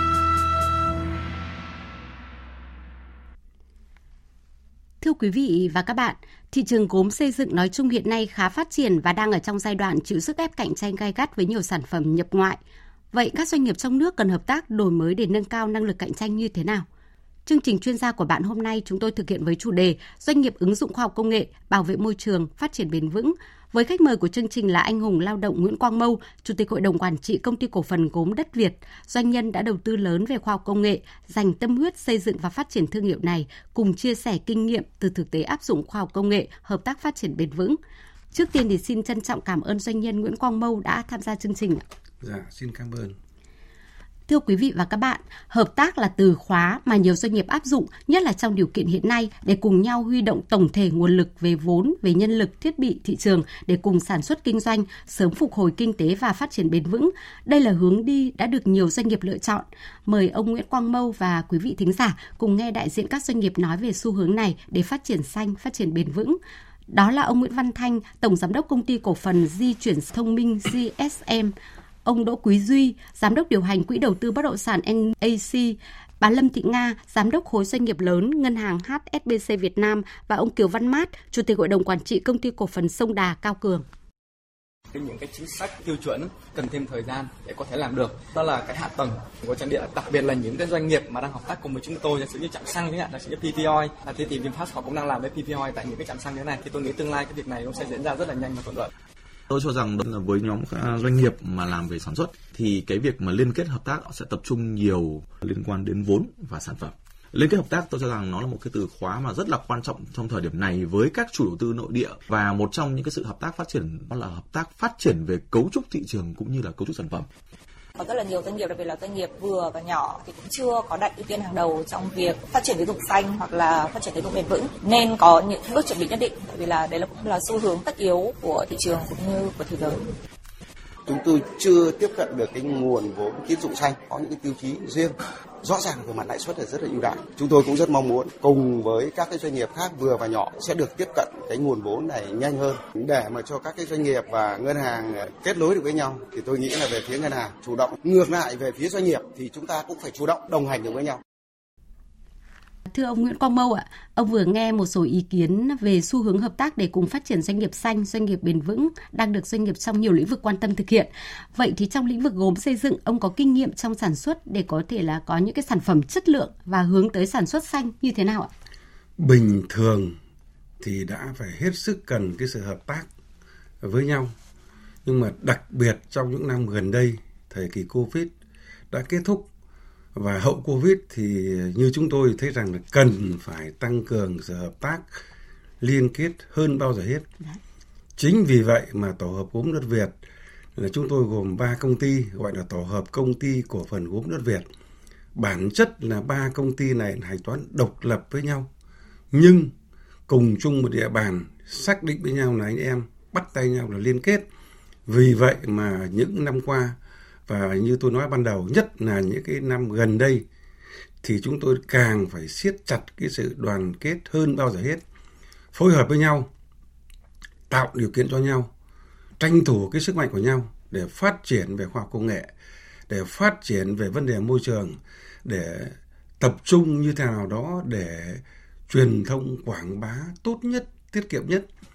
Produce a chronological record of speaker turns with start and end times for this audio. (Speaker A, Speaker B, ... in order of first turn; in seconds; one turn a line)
Speaker A: 5.0-12.6
Speaker A: 13.1-16.9
Speaker A: 17.4-37.8
Speaker A: 38.3-41.8
Speaker B: 42.2-43.2
Speaker A: 44.3-66.4
Speaker A: 66.9-71.5
Speaker A: 72.0-83.8
Speaker C: 84.9-98.9
Speaker D: 99.5-117.3
Speaker E: 118.0-130.0
Speaker F: 131.1-151.2
Speaker A: 152.9-168.5
Speaker B: 169.2-170.2
Speaker B: 170.8-173.1
Speaker B: 173.8-174.3
Speaker B: 175.0-178.3
Speaker B: 178.9-179.5
Speaker B: 180.1-185.2
Speaker B: 185.8-187.3
Speaker B: 188.2-190.1
Speaker B: 190.8-194.7
Speaker B: 195.3-198.7
Speaker B: 199.3-199.7
Speaker B: 200.3-204.5
Speaker B: 205.1-210.4
Speaker B: 211.2-215.0
Speaker B: 215.7-216.5
Speaker B: 217.7-218.7
Speaker B: 219.4-222.5
Speaker B: 223.1-231.7